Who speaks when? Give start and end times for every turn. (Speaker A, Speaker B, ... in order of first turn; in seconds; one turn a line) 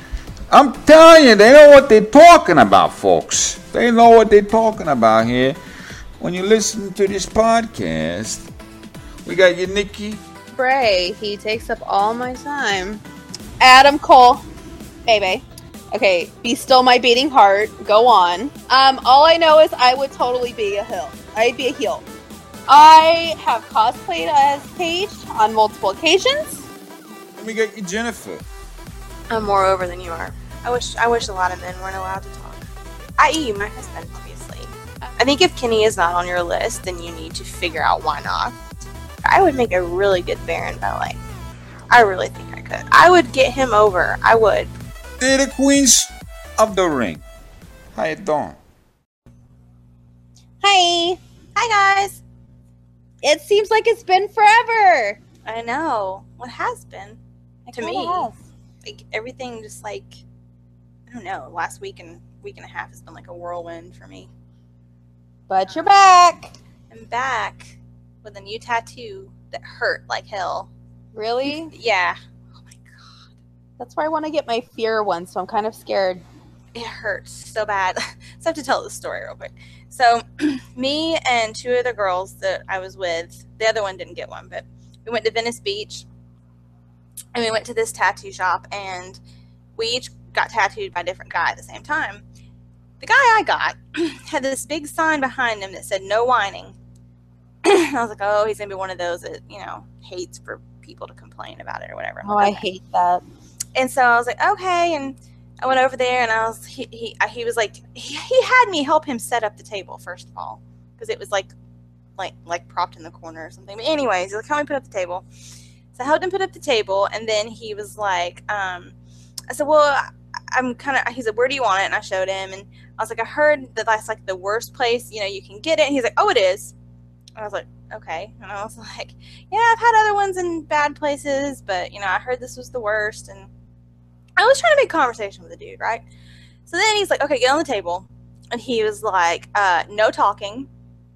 Speaker A: 0.5-5.6
Speaker A: 6.2-8.5
Speaker A: 9.2-10.2
Speaker B: 10.5-13.0
Speaker B: 13.6-14.4
Speaker B: 15.1-22.0
Speaker B: 22.7-26.6
Speaker A: 27.4-28.4
Speaker C: 29.3-32.6
Speaker C: 33.2-38.5
Speaker C: 39.2-41.2
Speaker C: 41.9-44.7
Speaker A: 45.2-47.2
Speaker A: 47.9-48.6
Speaker B: 50.6-51.2
Speaker C: 51.5-52.2
Speaker B: 53.2-55.2
Speaker C: 55.5-57.2
Speaker B: 57.6-58.4
Speaker C: 57.7-58.3
Speaker C: 58.8-60.2
Speaker C: 61.1-64.3
Speaker B: 65.5-66.5
Speaker C: 66.9-70.7
Speaker B: 71.1-71.7
Speaker C: 71.6-73.3
Speaker B: 73.8-76.2
Speaker C: 76.7-86.0
Speaker C: 87.3-89.2
Speaker C: 89.8-92.2
Speaker C: 93.0-96.7
Speaker C: 97.6-102.7
Speaker B: 102.2-103.2
Speaker C: 103.7-111.5
Speaker C: 112.2-115.2
Speaker C: 116.0-118.9
Speaker C: 119.5-126.7
Speaker C: 127.3-133.5
Speaker C: 134.4-136.0
Speaker C: 136.7-140.7